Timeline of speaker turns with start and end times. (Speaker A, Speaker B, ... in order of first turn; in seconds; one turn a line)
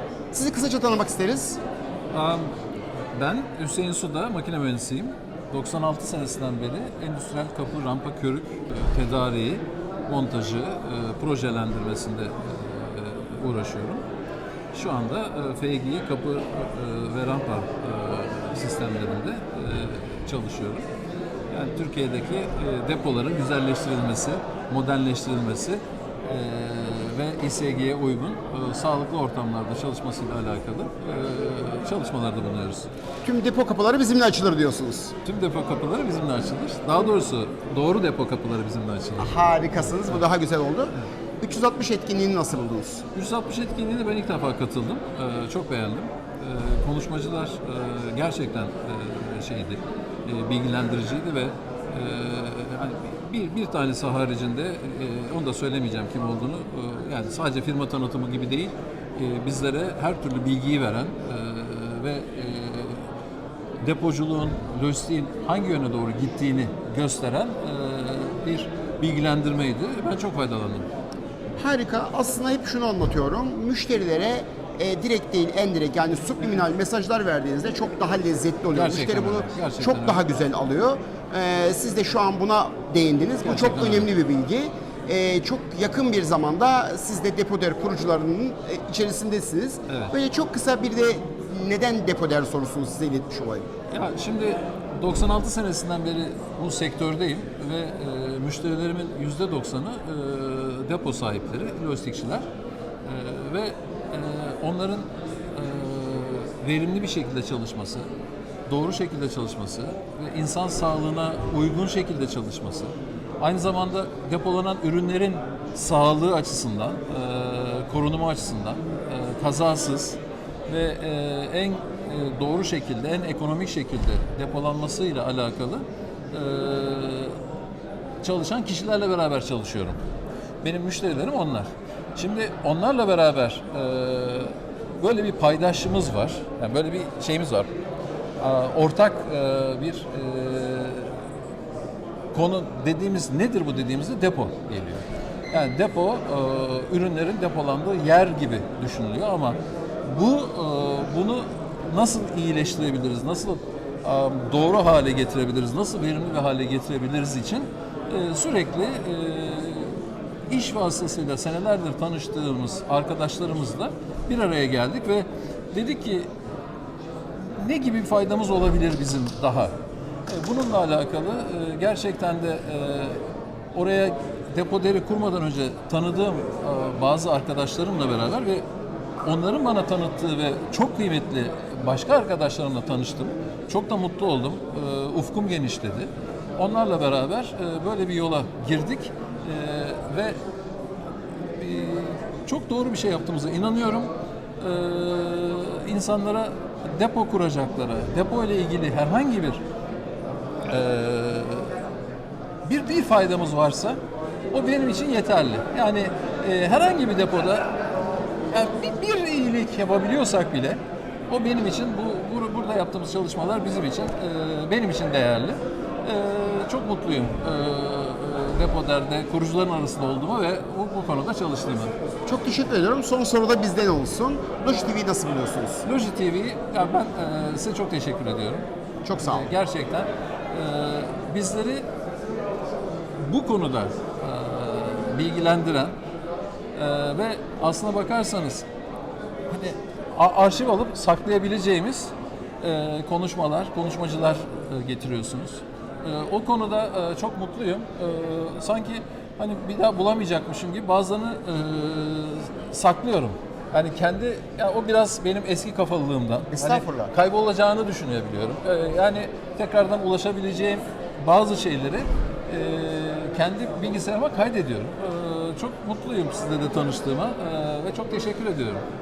Speaker A: 0.3-1.6
Speaker B: 2.1-2.5
Speaker B: 3.1-14.0
Speaker B: 14.7-20.9
Speaker B: 21.5-32.9
Speaker A: 33.2-35.1
Speaker B: 35.2-40.2
Speaker A: 39.2-43.0
Speaker B: 43.1-63.1
Speaker B: 63.8-70.9
Speaker A: 71.5-93.7
Speaker B: 78.7-80.2
Speaker B: 83.4-84.1
Speaker B: 89.9-90.1
Speaker B: 93.9-102.5
Speaker B: 103.0-108.1
Speaker B: 108.7-127.4
Speaker B: 128.2-130.0
Speaker B: 130.6-137.7
Speaker B: 138.4-141.2
Speaker B: 142.3-160.0
Speaker B: 160.5-166.3
Speaker B: 167.4-169.7
Speaker B: 170.3-173.2
Speaker B: 173.7-178.6
Speaker B: 179.2-190.4
Speaker B: 191.6-199.6
Speaker B: 200.7-201.7
Speaker B: 202.6-204.0
Speaker B: 204.5-207.7
Speaker B: 208.5-221.9
Speaker A: 222.2-225.8
Speaker B: 225.8-228.7
Speaker A: 229.0-229.5
Speaker B: 229.2-231.8
Speaker B: 233.2-235.9
Speaker B: 236.7-238.7
Speaker B: 239.5-268.8
Speaker A: 256.5-257.1